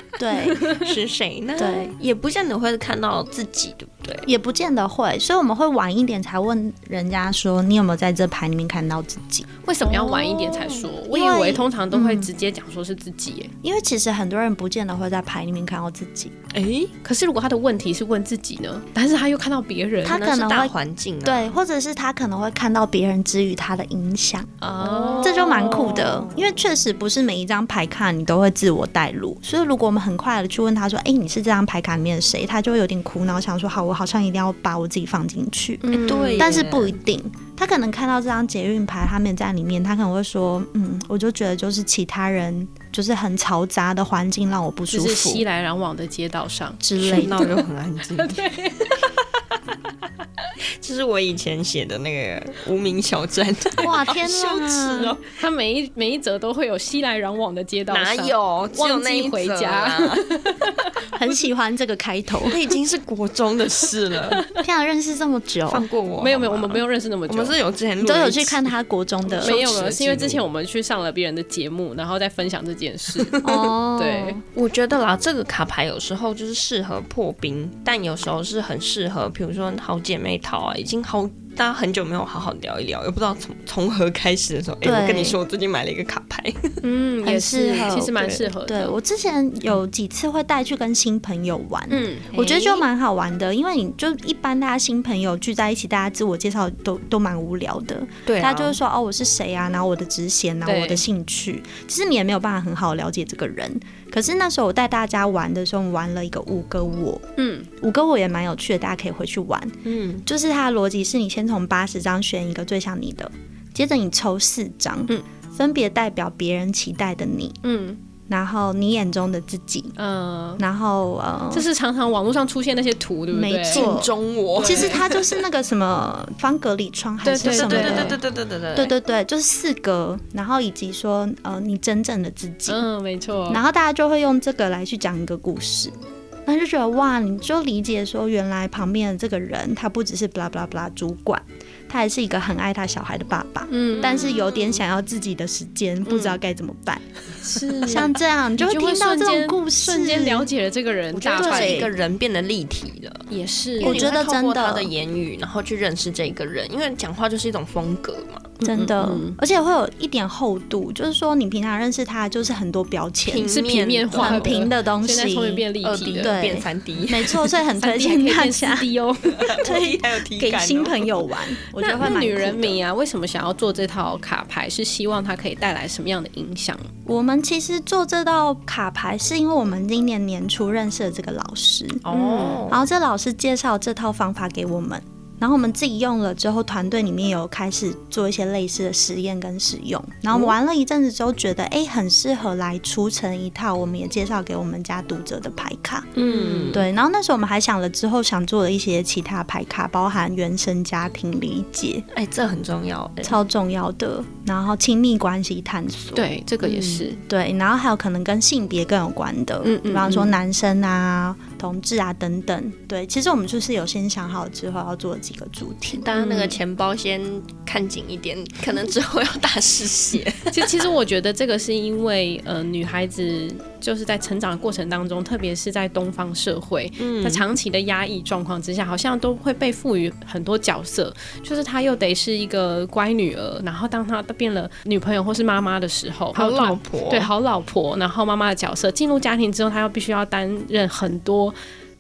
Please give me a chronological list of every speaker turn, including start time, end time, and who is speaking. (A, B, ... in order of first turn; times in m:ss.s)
0:00.2-0:00.6 A
0:00.5-0:00.9 B
0:00.8-0:04.3 C
0:01.6-0:02.0 A
0:04.3-0:09.5 A
0:09.6-0:13.5 B
0:09.8-0:10.9 C
0:11.1-0:12.3 A
0:13.6-0:16.3 A
0:16.5-0:16.9 C
0:17.0-0:20.4 B
0:20.0-0:20.7 A
0:20.1-0:21.6 C
0:21.2-0:24.6 A
0:24.6-0:26.2 B
0:24.8-0:26.4 C
0:25.2-0:45.4 A
0:35.8-0:36.7 B
0:35.9-0:37.0 C
0:44.9-0:47.6 B
0:46.8-0:47.6 A
0:47.0-0:49.1 C
0:48.2-0:49.1 B
0:50.8-0:55.4 C
0:53.8-0:55.2 A
0:55.3-1:00.9 B
0:57.9-1:00.5 C
1:01.1-1:02.6 A
1:02.5-1:04.4 C
1:04.5-1:05.9 A
1:05.7-1:08.7 C
1:06.2-1:07.6 B
1:08.0-1:09.6 A
1:09.3-1:10.4 C
1:09.4-1:14.4 B
1:13.2-1:13.7 C
1:13.4-1:14.4 A
1:14.5-1:26.8 C
1:24.8-1:25.4 A
1:26.8-1:29.0 B
1:27.2-1:47.2 A
1:28.2-1:28.4 C
1:31.9-1:32.3 B
1:32.3-1:32.8 C
1:38.3-1:38.8 C
1:40.6-1:41.0 B
1:47.4-1:47.7 B
1:47.8-1:57.6 A
1:49.8-1:50.2 C
1:57.6-1:58.0 B
1:58.3-2:00.0 A
2:00.0-2:00.6 B
2:00.6-2:01.7 A
2:01.5-2:03.9 B
2:03.3-2:12.8 A
2:03.7-2:05.4 C
2:04.6-2:05.0 B
2:07.2-2:08.2 B
2:07.4-2:08.9 C
2:12.7-2:13.6 B
2:13.5-2:15.9 A
2:16.5-2:27.0 A
2:23.7-2:24.4 B
2:24.0-2:24.7 C
2:26.1-2:26.4 B
2:27.4-2:31.8 B
2:27.8-2:30.5 A
2:31.1-2:33.3 C
2:31.4-2:31.9 A
2:33.3-2:34.1 B
2:33.8-2:38.6 C
2:33.8-2:34.9 A
2:38.6-2:39.4 B
2:38.6-2:43.6 A
2:43.3-2:44.6 C
2:43.4-2:46.3 B
2:44.1-2:45.6 A
2:45.8-2:47.5 C
2:46.2-2:48.9 A
2:47.8-2:49.6 B
2:49.4-2:51.3 C
2:49.6-2:52.8 A
2:51.8-2:56.9 B
2:57.1-3:02.0 A
3:02.0-3:02.8 C
3:02.1-3:02.6 B
3:02.7-3:16.1 A
3:16.2-3:16.8 B
3:16.2-3:16.8 C
3:16.7-3:22.0 A
3:22.1-3:23.4 C
3:23.2-3:26.2 A
3:26.2-3:27.2 B
3:26.6-3:27.1 C
3:27.2-3:36.0 A
3:29.6-3:30.4 B
3:35.9-3:40.8 C
3:36.1-3:36.6 B
3:40.5-4:01.6 B
3:47.0-3:47.5 C
3:56.4-3:57.3 C